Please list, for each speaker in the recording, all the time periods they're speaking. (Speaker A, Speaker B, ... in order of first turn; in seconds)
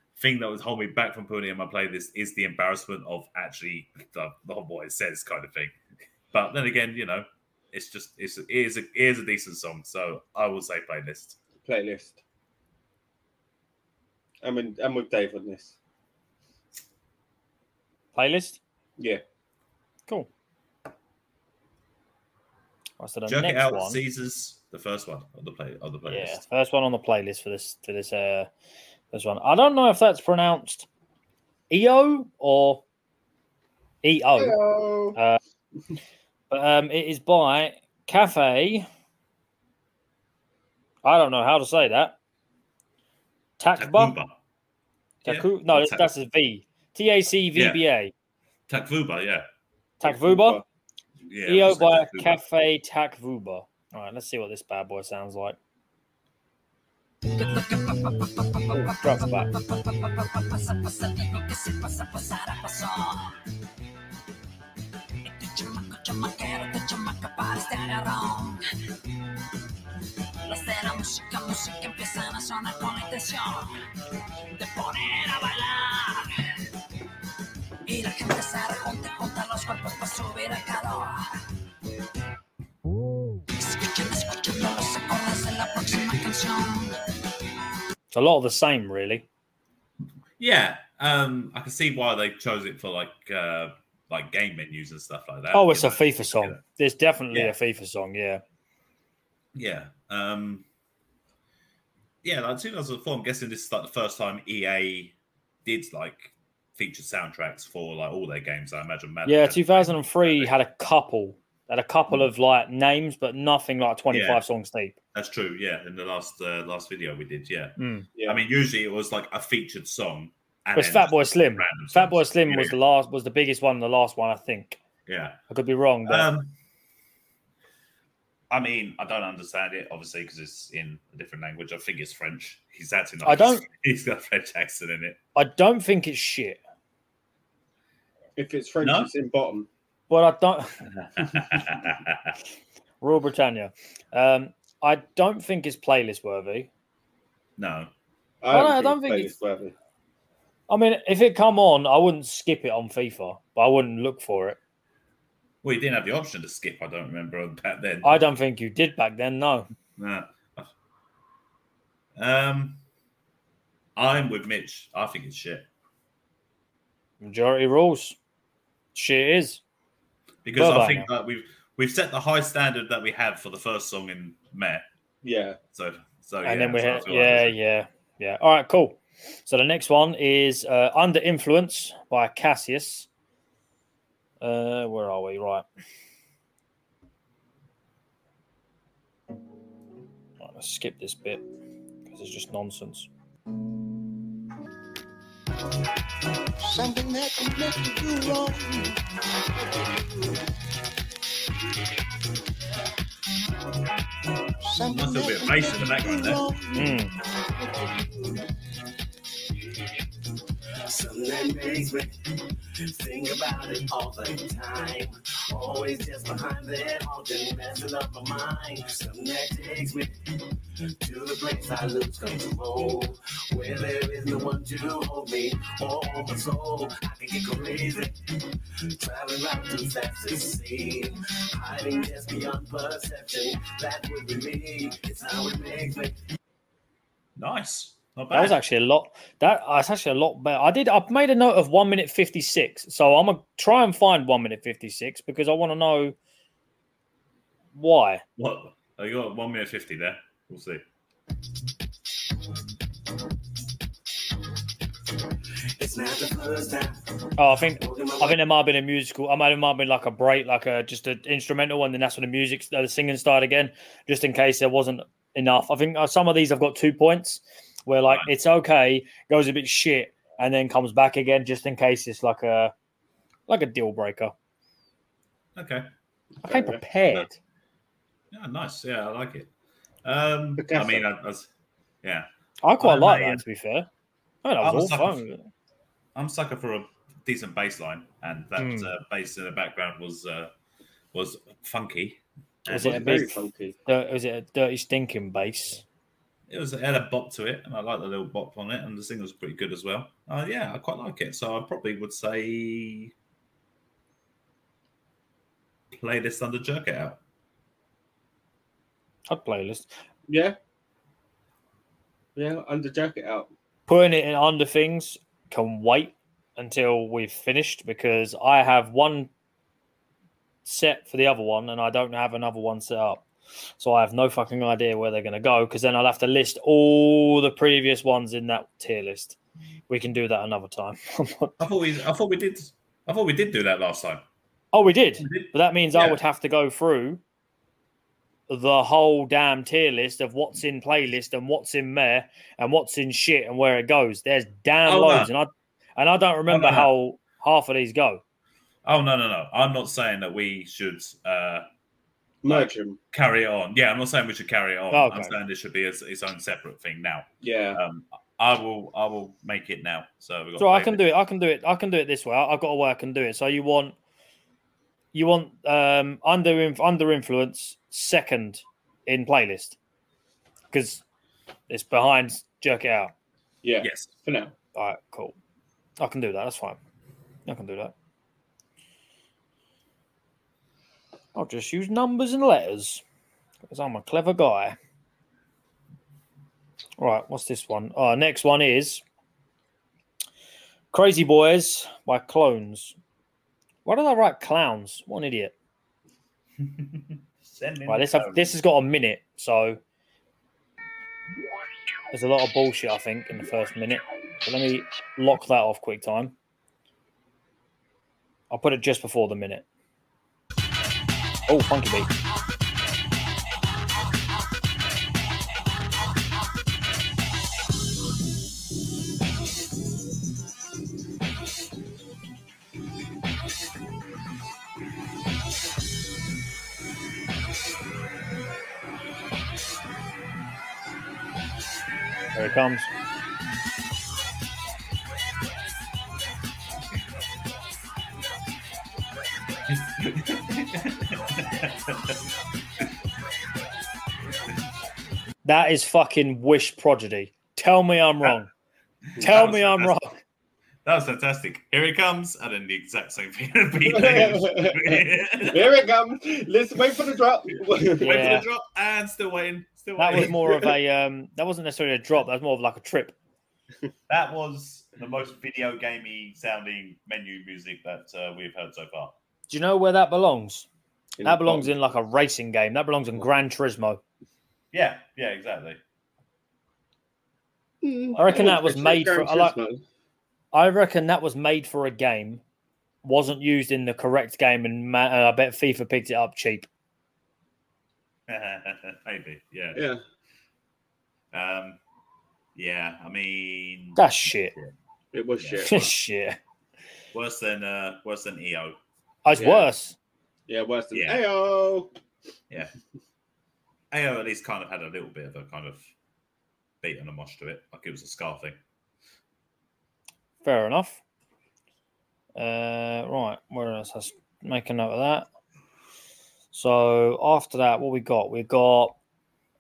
Speaker A: 0.2-5.8, 6.3-11.4, 23.3-26.4, 43.8-44.4, 45.2-46.1, 47.5-47.8, 48.7-49.5, 51.2-52.4, 90.4-96.6, 99.5-100.7, 102.2-110.5, 114.1-114.4, 115.1-122.8, 125.1-125.4, 126.1-126.5, 128.5-135.2, 138.8-139.1, 141.0-142.3, 147.6-147.9, 155.6-158.2, 160.0-160.7, 162.2-162.8, 164.0-165.7, 170.4-174.8, 175.7-177.6, 204.8-206.4, 237.4-238.6, 248.4-250.8, 275.6-275.9, 278.3-279.5, 280.0-281.5, 282.0-282.3, 282.8-283.4, 284.6-285.2, 286.1-290.5, 291.1-293.2, 296.5-303.1, 305.9-307.2, 331.6-334.2, 335.2-336.2, 344.9-345.3, 346.5-346.9, 348.9-351.7, 352.5-361.0, 373.8-374.1, 396.6-398.5, 439.7-442.2, 449.2-450.0, 450.9-455.8, 458.0-460.4, 464.1-469.1, 474.7-475.8, 488.3-489.9, 491.3-491.8, 492.6-494.8, 495.4-495.9, 497.1-498.8, 500.9-501.2, 503.9-505.9, 506.8-508.6
Speaker B: 11.6-12.2, 14.4-15.8, 34.4-35.2, 50.0-50.6, 138.4-139.7, 148.4-149.7, 175.2-175.6, 276.4-276.8, 280.6-281.1, 292.7-293.8, 310.3-310.6, 312.4-313.5, 352.4-353.0, 357.4-357.8, 373.6-374.5, 453.9-458.3, 460.3-460.6, 471.2-471.7, 477.8-479.8, 489.8-490.0, 495.1-495.9, 499.4-499.7, 500.5-501.9
Speaker C: 18.1-18.6, 23.0-24.0, 26.1-28.5, 29.1-30.9, 31.7-32.8, 34.0-34.6, 35.1-35.4, 36.5-38.9, 41.0-42.2, 43.6-44.1, 45.2-48.1, 50.0-50.6, 51.5-55.6, 58.7-59.5, 88.1-89.3, 95.5-98.4, 109.2-115.0, 117.8-118.1, 120.7-124.8, 125.5-126.3, 133.2-133.7, 135.3-136.6, 140.1-141.2, 143.0-146.7, 148.5-149.3, 150.7-154.6, 158.0-159.7, 167.2-168.2, 168.9-169.6, 170.6-171.1, 176.4-183.1, 184.4-185.7, 190.4-191.4, 192.1-193.1, 206.8-207.1, 238.3-246.2, 247.7-248.2, 257.4-272.7, 273.5-274.3, 276.4-277.4, 282.6-283.9, 284.4-285.5, 288.6-288.9, 292.7-295.8, 309.3-309.9, 313.9-319.3, 320.6-323.2, 323.8-329.4, 329.9-331.6, 334.7-337.2, 338.5-348.2, 354.9-355.4, 360.6-364.0, 365.1-369.8, 370.7-371.0, 371.7-373.1, 374.8-375.4, 376.0-376.8, 377.5-377.9, 381.4-383.0, 383.7-384.8, 387.0-389.0, 390.9-393.0, 393.9-395.5, 397.9-399.8, 402.1-406.4, 408.5-409.7, 411.5-412.1, 432.4-432.9, 445.4-448.5, 449.2-450.2, 458.0-458.4, 460.0-463.1, 469.5-470.7, 471.2-474.0, 478.2-479.6, 480.5-482.4, 483.0-486.7, 494.0-494.5, 495.6-496.4, 499.2-500.0, 510.4-511.0, 512.4-515.3, 516.5-519.0
Speaker D: 57.3-63.3, 65.2-68.6, 70.5-73.8, 74.5-76.3, 77.9-81.3, 83.6-87.0
Speaker E: 196.6-200.4, 204.6-208.4, 210.9-212.1, 212.9-220.1, 221.0-228.1, 229.0-236.2, 255.8-257.0, 257.6-258.4